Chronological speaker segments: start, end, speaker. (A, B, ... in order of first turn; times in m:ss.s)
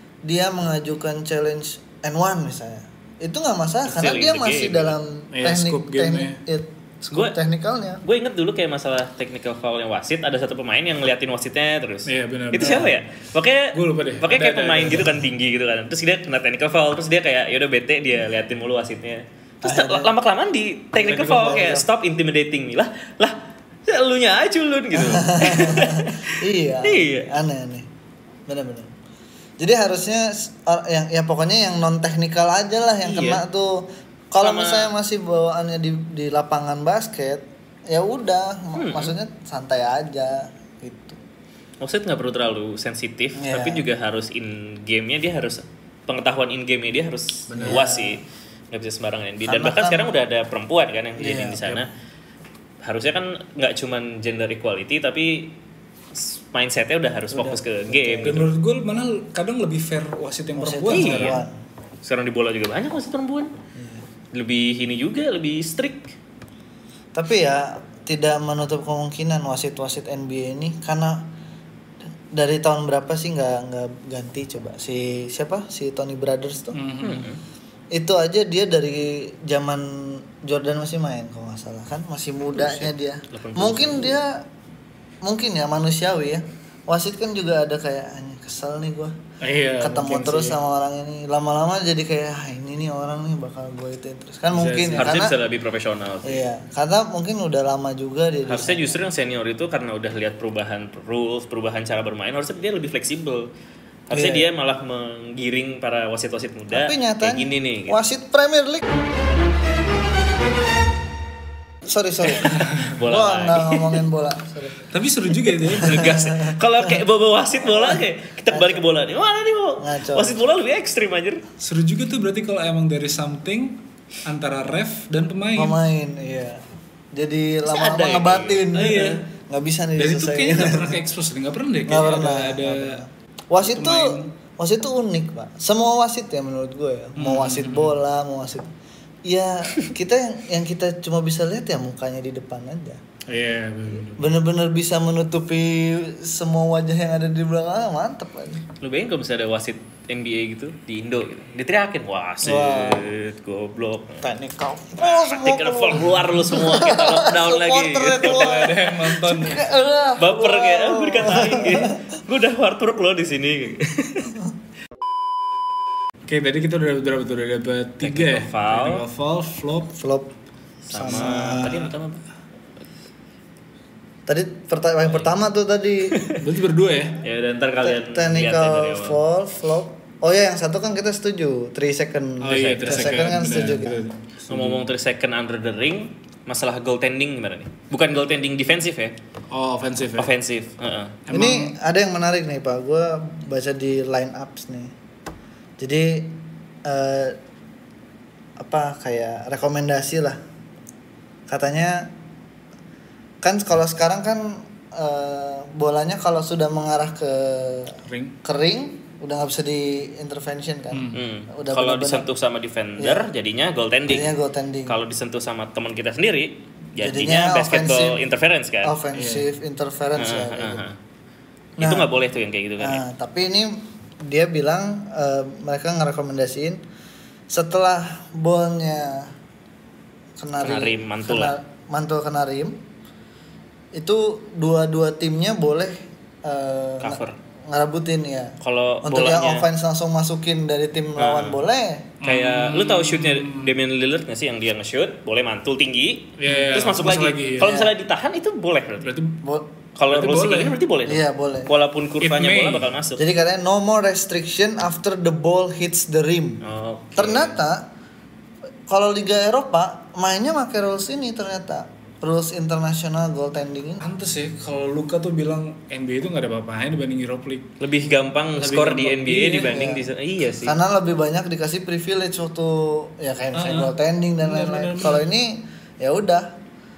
0:00.2-0:08.0 A
0:03.8-0:05.0 B
0:05.3-0:06.4 C
0:07.1-0:07.4 B
0:08.0-0:26.3 B
0:12.1-0:13.0 C
0:13.7-0:15.2 C
0:19.6-0:20.1 A
0:21.0-0:21.6 C
0:21.1-0:21.8 A
0:24.9-0:27.9 A
0:26.8-0:27.3 B
0:28.5-0:28.9 A
0:29.6-0:41.2 A
0:33.0-0:33.4 B
0:34.4-0:34.9 B
0:38.8-0:39.2 B
0:41.8-0:51.9 B
0:43.4-0:43.8 A
0:47.5-0:47.8 C
0:47.6-0:48.2 A
0:49.4-0:50.2 A
0:51.2-0:51.6 A
0:52.8-0:55.6 B
0:56.1-0:58.5 B
0:57.3-0:58.5 A
0:58.2-1:01.4 C
1:00.6-1:01.5 A
1:00.9-1:01.4 B
1:02.0-1:03.5 B
1:03.8-1:04.0 A
1:04.3-1:06.1 B
1:07.1-1:11.3 A
1:12.3-1:16.8 A
1:16.7-1:17.3 C
1:17.0-1:17.4 B
1:17.9-1:24.4 A
1:22.5-1:24.2 B
1:25.2-1:29.2 A
1:29.4-1:30.6 C
1:29.8-1:35.3 A
1:34.5-1:35.2 C
1:35.0-1:36.4 B
1:36.2-1:39.0 A
1:38.5-1:43.5 B
1:44.1-1:48.0 B
1:44.1-1:44.5 A
1:46.7-1:48.9 A
1:51.8-1:54.9 A
1:52.8-1:54.0 B
1:54.9-1:56.2 C
1:55.7-2:01.4 B
1:55.7-1:56.9 A
1:57.6-1:58.8 A
1:59.8-2:00.4 A
2:01.6-2:05.8 C
2:05.5-2:11.0 A
2:07.6-2:08.7 B
2:08.7-2:09.2 C
2:10.0-2:13.0 C
2:11.8-2:18.7 A
2:13.6-2:14.3 C
2:17.2-2:17.9 C
2:19.2-2:23.0 A
2:23.3-2:24.3 C
2:24.1-2:28.6 A
2:28.8-2:34.3 B
2:32.4-2:33.0 A
2:34.2-2:42.0 A
2:35.0-2:38.8 B
2:38.2-2:39.7 C
2:40.2-2:44.4 B
2:46.3-2:49.9 C
2:48.0-2:49.0 B
2:49.9-2:50.3 A
2:50.8-2:52.2 B
2:50.9-2:51.8 A
2:51.2-2:51.9 C
2:54.3-2:56.2 A
2:55.1-2:55.3 B
2:56.4-2:57.2 C
2:57.2-2:59.2 B
2:57.8-3:04.0 A
3:02.4-3:04.8 C
3:02.5-3:03.2 B
3:04.5-3:09.1 B
3:09.5-3:10.3 C
3:10.2-3:11.2 B
3:11.3-3:11.8 C
3:11.3-3:14.9 A
3:15.8-3:17.4 A
3:18.6-3:20.4 A
3:21.5-3:22.1 A
3:23.4-3:32.3 A
3:28.1-3:28.4 C
3:30.9-3:31.2 C
3:31.1-3:39.0 B
3:33.0-3:33.3 A
3:34.1-3:35.0 A
3:37.0-3:38.2 A
3:38.8-3:40.8 A
3:39.1-3:39.5 C
3:40.2-3:41.0 B
3:41.8-3:42.1 A
3:41.8-3:43.0 B
3:42.8-3:46.8 A
3:47.5-3:49.3 A
3:50.4-3:52.8 A
3:50.6-3:51.5 B
3:53.9-4:02.1 A
3:57.0-3:57.4 B
3:58.6-3:59.7 B
4:01.2-4:01.6 B
4:02.2-4:03.7 C
4:02.2-4:09.1 B
4:06.4-4:07.7 C
4:07.6-4:07.9 A
4:09.0-4:09.4 C
4:09.4-4:09.7 A
4:10.0-4:13.2 B
4:10.1-4:10.8 C
4:11.0-4:11.7 A
4:12.2-4:12.9 C
4:13.2-4:16.6 A
4:16.6-4:17.5 B
4:17.2-4:17.8 A
4:18.9-4:24.0 A
4:24.0-4:27.7 C
4:27.8-4:30.8 B
4:28.5-4:29.8 C
4:29.5-4:30.0 A
4:30.6-4:36.5 A
4:33.5-4:35.2 C